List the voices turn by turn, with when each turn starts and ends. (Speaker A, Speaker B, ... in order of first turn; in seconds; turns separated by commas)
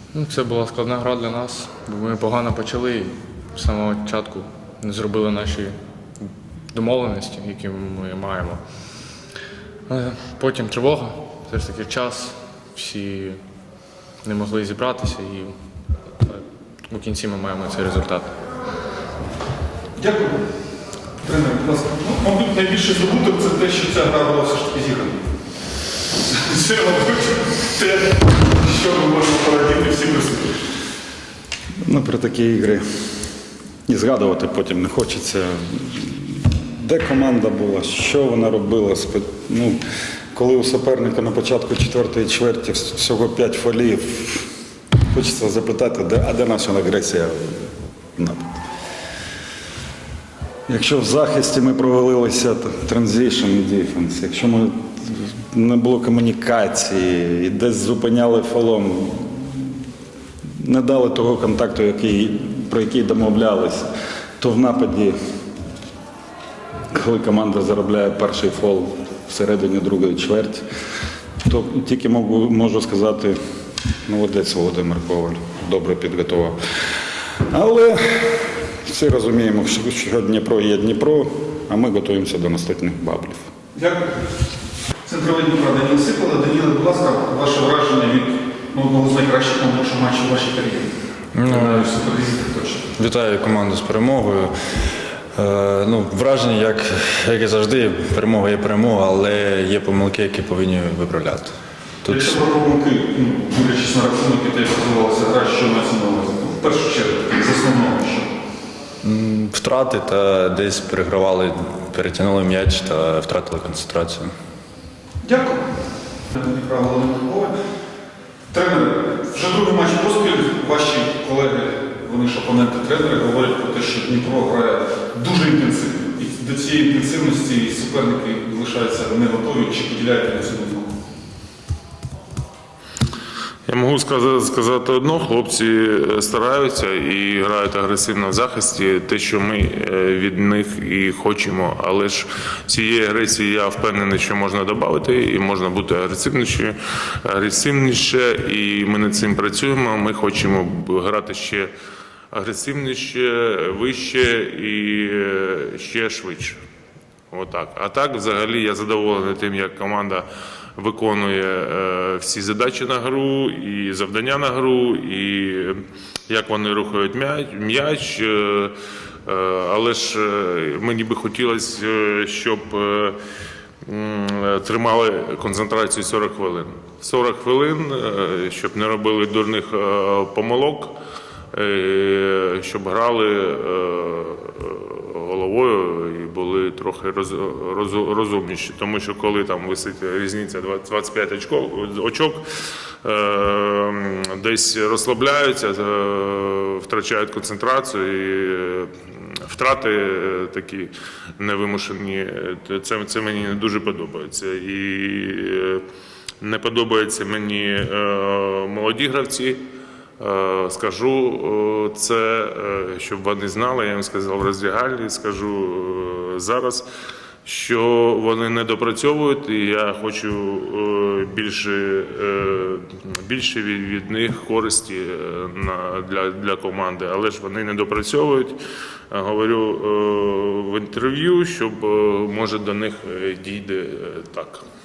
Speaker A: 0.1-5.8, Speaker A: 6.7-8.9, Speaker A: 9.9-13.4, Speaker A: 14.2-15.5, Speaker A: 16.2-18.4, Speaker B: 20.0-20.4, Speaker B: 21.2-25.2, Speaker B: 26.3-30.5, Speaker C: 31.8-32.8, Speaker C: 33.9-39.8, Speaker C: 40.3-44.5, Speaker C: 45.1-48.4, Speaker C: 50.7-59.7, Speaker C: 60.6-63.9, Speaker C: 64.4-65.1, Speaker C: 66.9-70.7, Speaker C: 71.4-73.4, Speaker C: 74.0-76.6, Speaker C: 77.5-83.5, Speaker B: 83.7-84.1, Speaker B: 85.0-90.9, Speaker D: 91.3-91.9, Speaker B: 91.4-92.9, Speaker D: 93.0-94.5, Speaker D: 95.3-101.5, Speaker D: 102.0-102.4, Speaker B: 102.1-108.3, Speaker D: 109.0-114.3, Speaker B: 115.2-115.6, Speaker B: 116.3-117.5, Speaker B: 118.5-130.9, Speaker E: 133.7-151.7, Speaker E: 152.3-156.6, Speaker E: 157.3-160.2, Speaker E: 160.8-168.7, Speaker E: 169.2-173.2, Speaker E: 173.9-180.9, Speaker E: 181.5-192.4, Speaker E: 193.0-205.8, Speaker E: 206.4-209.6, Speaker E: 210.2-216.8, Speaker E: 217.4-228.6, Speaker E: 229.1-234.6